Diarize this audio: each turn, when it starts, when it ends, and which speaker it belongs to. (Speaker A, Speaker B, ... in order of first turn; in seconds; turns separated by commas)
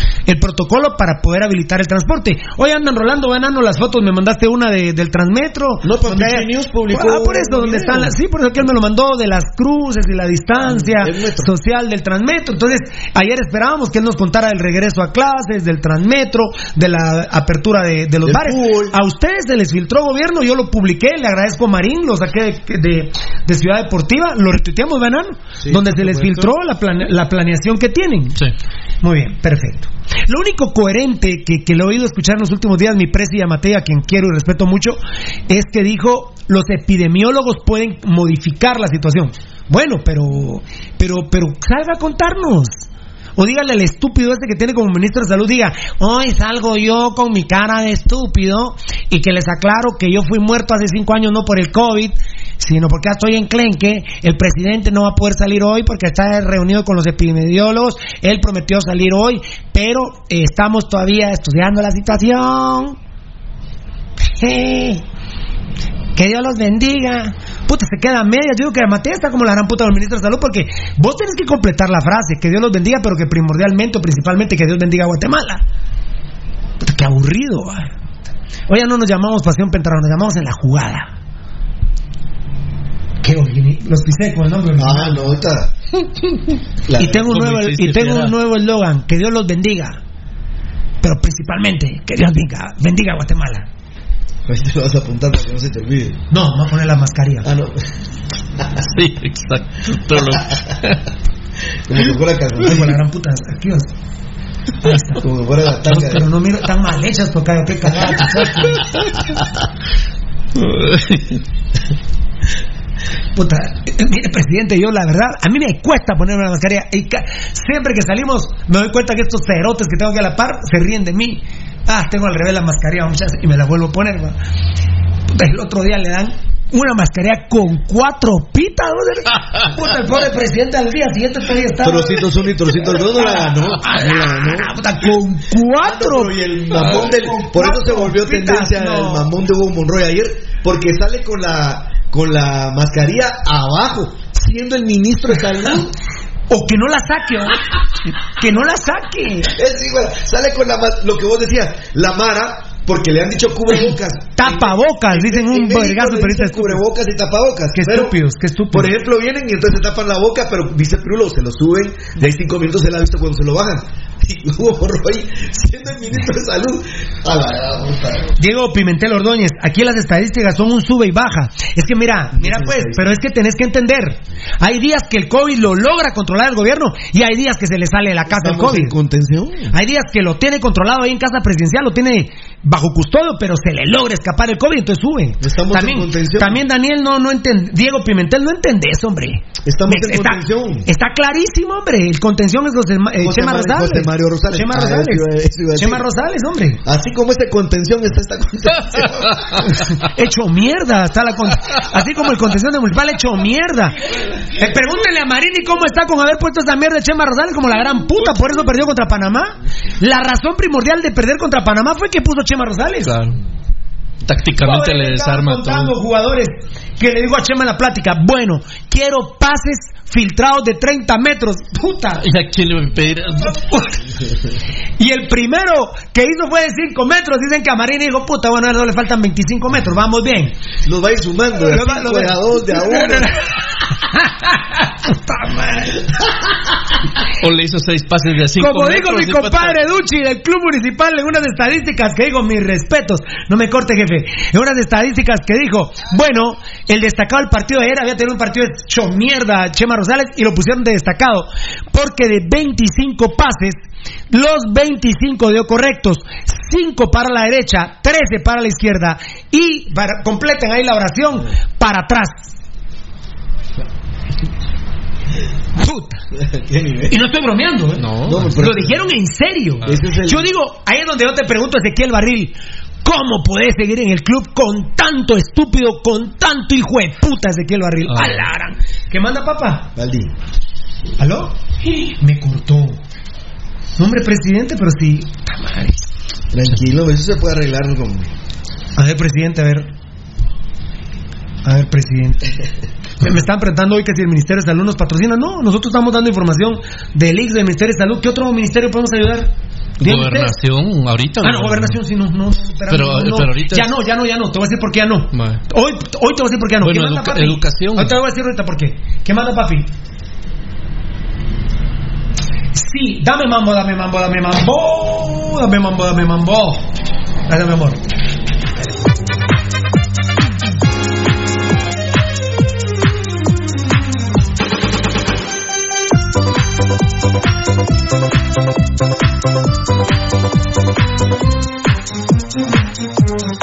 Speaker A: 0.3-28.4, Speaker B: 5.8-8.1, Speaker B: 10.7-11.5, Speaker B: 18.2-19.0, Speaker B: 25.6-26.5, Speaker A: 29.0-42.7, Speaker A: 43.4-63.0, Speaker A: 64.4-65.0, Speaker A: 66.2-75.6, Speaker A: 76.8-77.9, Speaker A: 78.7-81.1, Speaker A: 83.2-85.4, Speaker B: 84.8-85.7, Speaker B: 86.9-87.3, Speaker A: 87.0-90.0, Speaker C: 87.3-88.3, Speaker A: 91.0-93.7, Speaker B: 94.5-96.2, Speaker A: 96.3-97.5, Speaker B: 97.4-97.8, Speaker C: 98.8-101.0, Speaker B: 101.9-103.0, Speaker A: 102.6-103.9, Speaker A: 104.8-105.2, Speaker B: 105.1-106.3, Speaker A: 105.9-108.8, Speaker B: 107.9-109.1, Speaker C: 110.6-111.4, Speaker A: 113.3-124.3, Speaker A: 125.3-139.3, Speaker B: 131.8-134.8, Speaker B: 135.8-145.9, Speaker A: 146.5-149.5, Speaker B: 149.5-158.2, Speaker A: 153.7-156.8, Speaker A: 157.7-158.9, Speaker B: 158.7-168.3, Speaker A: 168.4-178.9, Speaker B: 172.3-173.1, Speaker B: 178.3-179.7, Speaker A: 179.7-196.8, Speaker B: 185.4-186.6, Speaker B: 189.7-190.9, Speaker B: 193.2-196.1, Speaker B: 196.8-199.8, Speaker A: 199.6-213.1, Speaker C: 213.1-213.4, Speaker C: 214.2-215.9, Speaker A: 214.6-222.2, Speaker C: 222.2-223.6, Speaker A: 223.6-223.9, Speaker A: 225.0-230.5, Speaker B: 230.8-233.4, Speaker A: 231.6-236.1, Speaker C: 237.4-239.8, Speaker A: 238.6-262.5, Speaker A: 265.8-266.2, Speaker B: 266.4-267.2, Speaker A: 267.1-279.9, Speaker C: 268.0-268.5, Speaker B: 268.3-269.1, Speaker B: 269.9-270.5, Speaker C: 278.1-278.4, Speaker B: 280.0-280.3, Speaker A: 281.2-283.0, Speaker A: 284.0-286.1, Speaker B: 286.5-288.3, Speaker A: 289.0-289.9, Speaker A: 291.6-292.5, Speaker A: 293.2-299.5, Speaker C: 300.0-302.0, Speaker A: 300.0-300.6, Speaker A: 301.4-309.9, Speaker C: 302.9-303.9, Speaker C: 305.3-305.6, Speaker C: 306.8-308.2, Speaker A: 312.8-316.9, Speaker A: 317.5-318.0